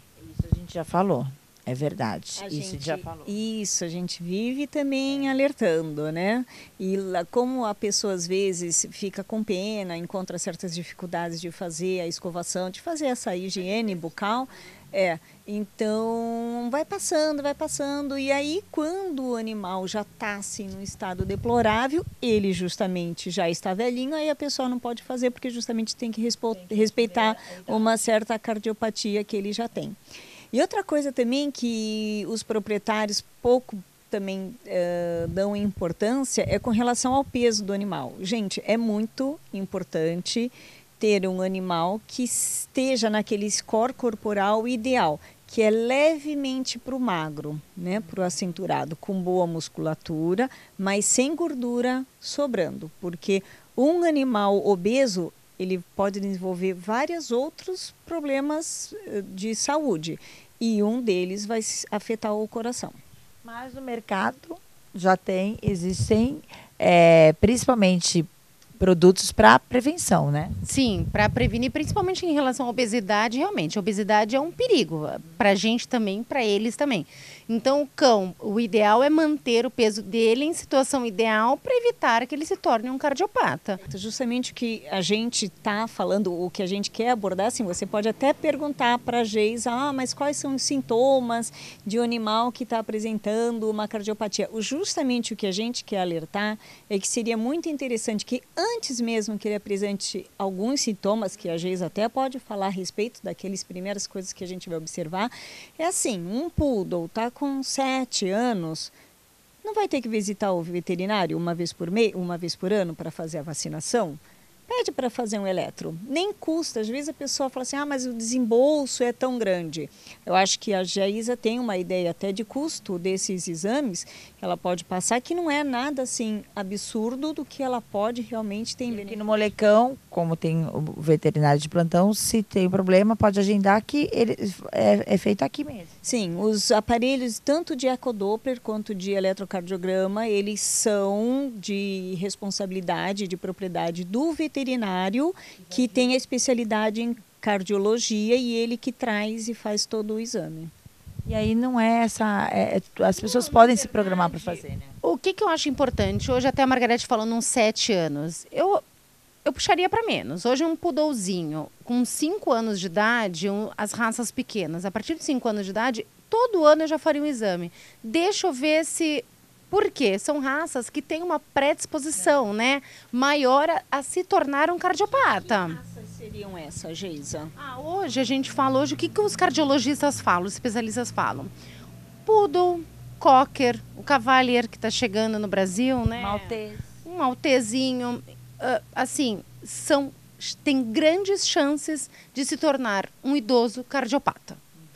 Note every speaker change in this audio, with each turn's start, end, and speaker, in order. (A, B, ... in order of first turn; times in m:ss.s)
0:00.2-0:03.3 A
0:02.3-0:30.0 B
0:26.5-0:28.0 A
0:30.5-1:03.0 B
1:03.4-1:10.5 A
1:10.6-1:23.8 C
1:23.8-1:48.9 B
1:49.6-2:09.3 B
2:08.9-2:16.0 A
2:16.0-2:30.7 B
2:31.2-2:34.9 A
2:33.1-2:38.8 C
2:39.4-2:55.8 C
2:55.0-2:57.5 B
2:57.5-3:01.5 C
3:02.2-3:14.6 C
3:06.2-3:06.9 A